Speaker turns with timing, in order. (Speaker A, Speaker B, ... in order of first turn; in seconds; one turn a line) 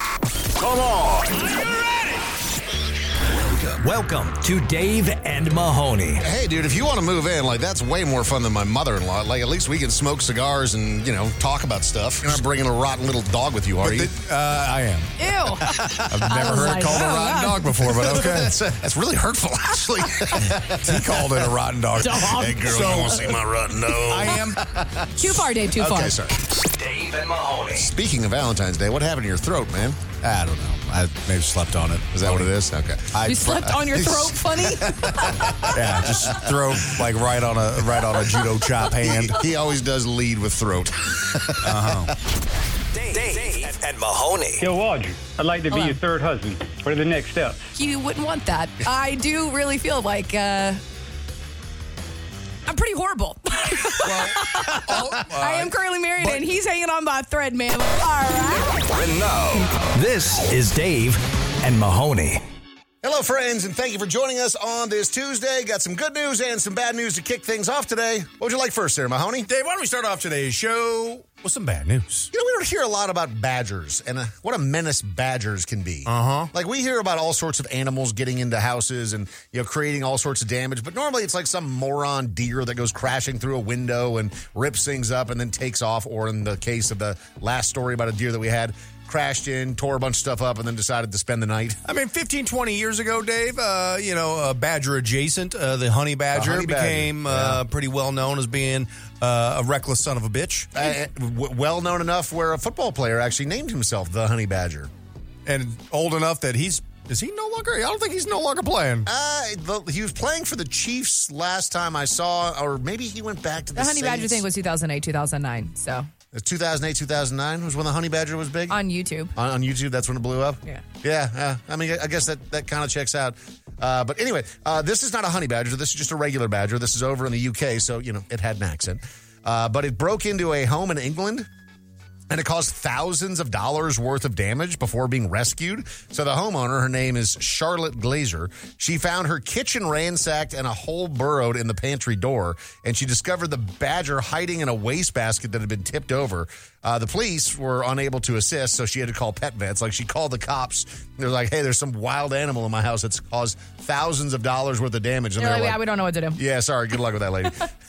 Speaker A: 0.6-1.5
Speaker A: 3.5-6.2
Speaker B: 6.2-14.1
Speaker C: 13.8-15.1
Speaker D: 15.2-17.6
Speaker B: 15.7-21.5
Speaker C: 16.1-18.6
Speaker C: 20.4-23.4
Speaker D: 22.0-23.1
Speaker B: 22.3-26.4
Speaker C: 24.0-24.6
Speaker D: 25.2-26.1
Speaker A: 26.5-27.9
Speaker B: 27.7-31.0
Speaker C: 30.9-32.5
Speaker B: 32.1-36.5
Speaker C: 33.1-33.6
Speaker D: 33.2-35.7
Speaker C: 35.7-39.4
Speaker B: 39.0-42.1
Speaker C: 41.6-42.1
Speaker A: 42.9-44.6
Speaker E: 44.8-46.3
Speaker D: 45.7-46.0
Speaker E: 46.9-47.5
Speaker D: 47.7-50.8
Speaker D: 52.7-58.9
Speaker C: 54.0-56.4
Speaker B: 54.9-55.2
Speaker A: 58.9-62.4
Speaker B: 63.0-69.5
Speaker C: 69.5-72.3
Speaker B: 72.3-91.8
Speaker C: 76.0-76.5
Speaker C: 91.8-100.7
Speaker B: 96.3-97.6
Speaker B: 100.7-104.9
Speaker C: 105.5-109.1
Speaker B: 109.0-114.4
Speaker D: 113.8-116.1
Speaker B: 116.3-118.8
Speaker D: 118.7-119.3
Speaker B: 119.3-131.5
Speaker B: 132.3-155.8
Speaker D: 155.4-156.4
Speaker B: 156.4-157.7